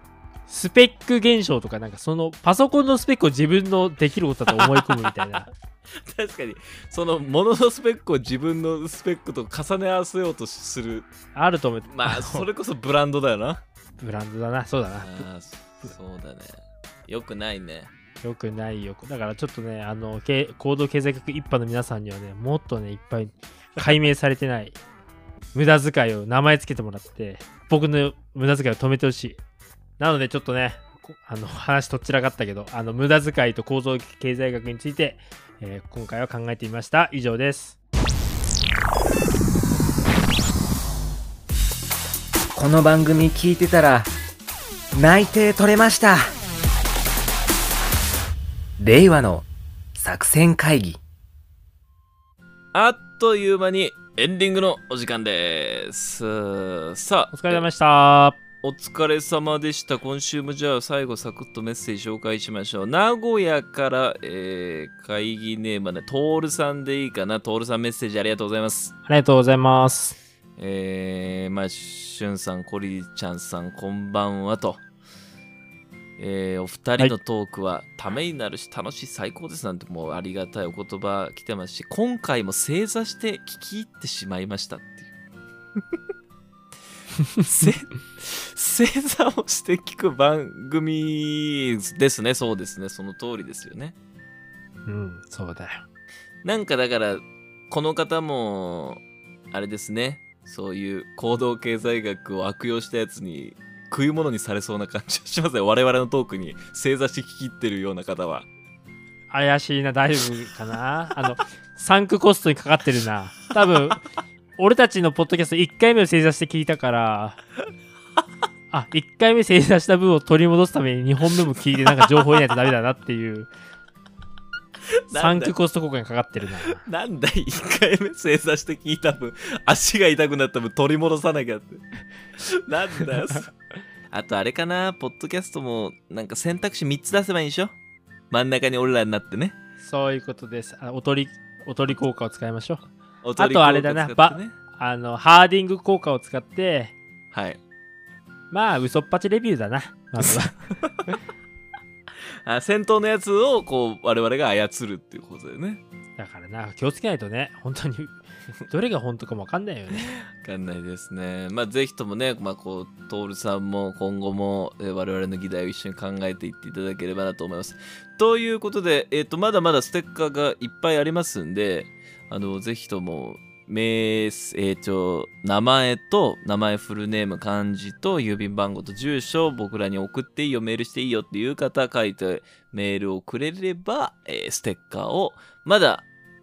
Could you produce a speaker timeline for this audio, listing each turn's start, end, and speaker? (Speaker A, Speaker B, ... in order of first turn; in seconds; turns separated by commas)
Speaker A: 0.5-5.5, Speaker B: 4.5-5.3, Speaker B: 5.9-11.1, Speaker A: 11.3-12.5, Speaker B: 11.9-13.6, Speaker A: 14.0-15.3, Speaker B: 15.0-17.9, Speaker A: 18.2-24.8, Speaker A: 25.5-29.4, Speaker A: 30.0-37.8, Speaker C: 42.5-44.1, Speaker C: 44.9-46.3, Speaker C: 48.8-51.0, Speaker B: 52.7-57.7, Speaker A: 57.3-58.4, Speaker B: 58.6-69.0, Speaker A: 69.1-70.2, Speaker B: 70.6-74.8, Speaker B: 76.2-85.1, Speaker B: 87.4-94.0, Speaker A: 94.9-95.8, Speaker B: 96.4-108.5, Speaker A: 109.3-114.0, Speaker A: 114.6-117.4, Speaker A: 118.7-123.5, Speaker B: 125.0-125.5, Speaker A: 125.1-126.8, Speaker B: 126.6-131.8, Speaker B: 132.4-133.5, Speaker B: 134.1-137.7, Speaker B: 138.3-139.6, Speaker A: 139.8-142.8, Speaker B: 143.2-144.5, Speaker A: 143.4-146.9, Speaker B: 147.3-147.6, Speaker A: 148.5-150.7, Speaker B: 150.8-151.2, Speaker B: 152.4-155.8, Speaker A: 156.2-160.1, Speaker B: 159.9-186.1